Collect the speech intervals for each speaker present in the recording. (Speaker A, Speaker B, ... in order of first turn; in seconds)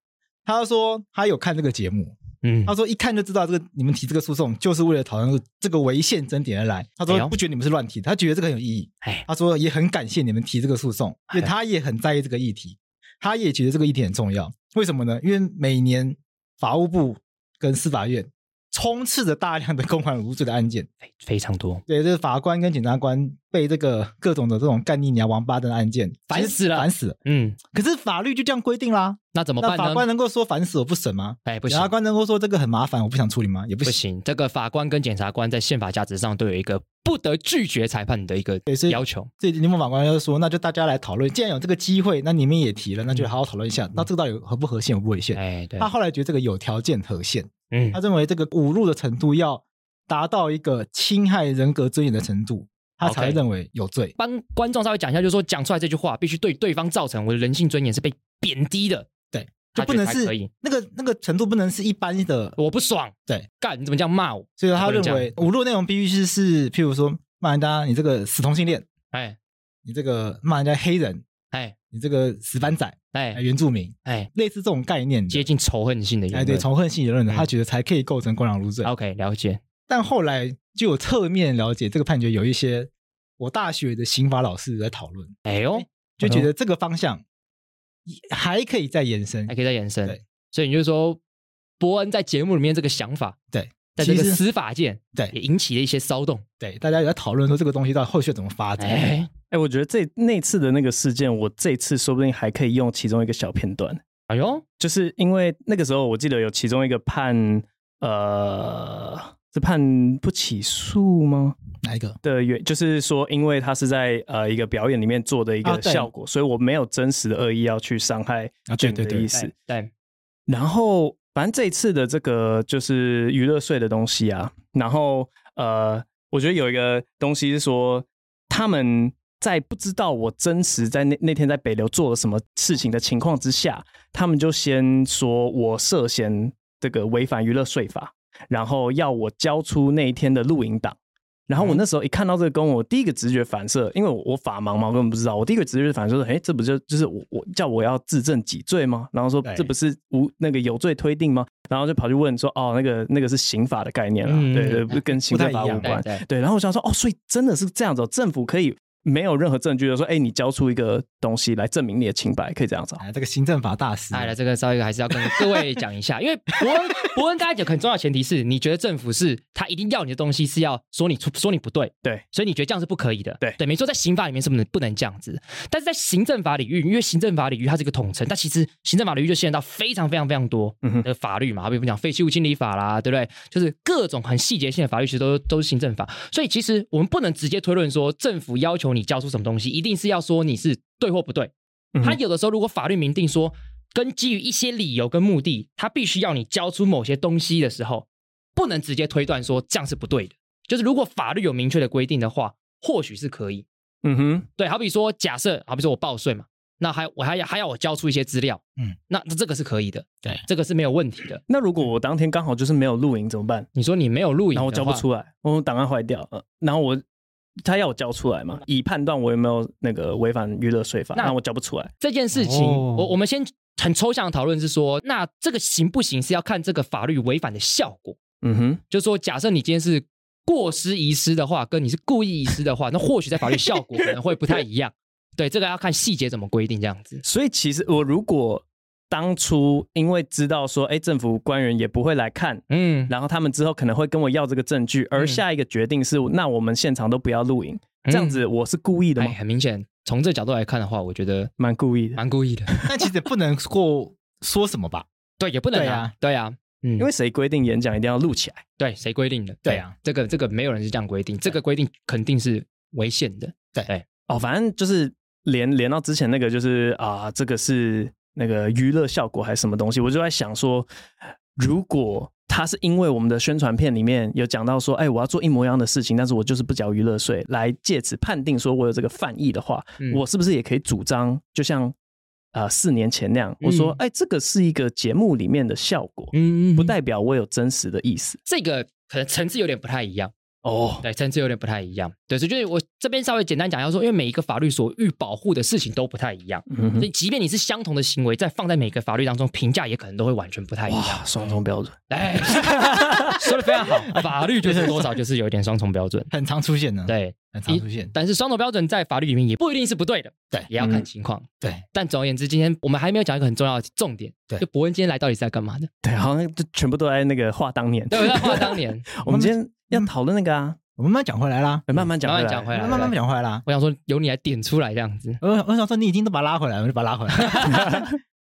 Speaker A: 0.5-2.1, 2.7-20.9, 21.9-27.2, 27.7-34.0, 38.7-54.1, 59.3-62.5, 64.6-68.8, 69.8-71.2, 71.9-75.5, 76.3-78.9, 79.9-87.2, 88.0-89.5, 93.5-94.4, 96.6-99.1, 111.8-112.2, 115.6-116.1, 118.7-119.5, 149.4-149.7, 155.3-155.9, 163.0-164.3, 165.2-165.6, 222.4-223.1, 252.8-255.1, 255.7-256.1, 259.6-259.9, 304.2-305.1, 306.3-308.1, 319.2-320.1, 321.0-322.1, 322.7-323.6, 325.4-328.0
Speaker B: 2.4-2.7, 7.1-7.3, 21.1-21.8, 26.3-27.6, 29.3-30.0, 31.4-31.9, 33.8-39.3, 45.3-45.9, 47.7-48.0, 53.0-53.4, 54.2-59.1, 59.7-60.5, 62.6-65.3, 69.1-69.4, 73.1-73.4, 75.3-76.7, 78.8-79.6, 85.4-86.5, 89.5-91.2, 91.8-93.3, 94.0-96.4, 98.8-99.3, 104.3-104.6, 119.4-119.9, 154.2-155.0, 155.8-156.2, 164.1-191.5, 192.0-203.7, 204.6-211.4, 213.7-215.0, 222.0-228.2, 228.9-237.2, 242.7-243.1, 245.2-245.4, 248.1-248.4, 249.2-251.5, 252.2-252.7, 255.4-257.1, 258.8-264.0, 283.6-284.0, 286.3-286.9, 288.4-290.3, 291.0-301.2, 302.1-306.3, 307.1-315.9, 318.1-319.1, 322.2-325.4, 327.4-327.9
Speaker C: 99.5-104.0, 104.8-111.6, 112.2-119.5, 120.5-141.0, 141.5-163.0, 204.0-204.5, 211.5-213.7, 214.5-217.0, 217.6-221.9, 228.4-228.8, 233.5-234.1, 237.2-249.4, 251.6-253.1, 257.0-258.6, 264.3-270.9, 271.5-281.9, 282.5-288.4, 290.6-291.0, 296.7-297.1, 300.9-303.5, 310.8-311.1, 316.0-320.8, 321.9-323.1, 327.6-328.1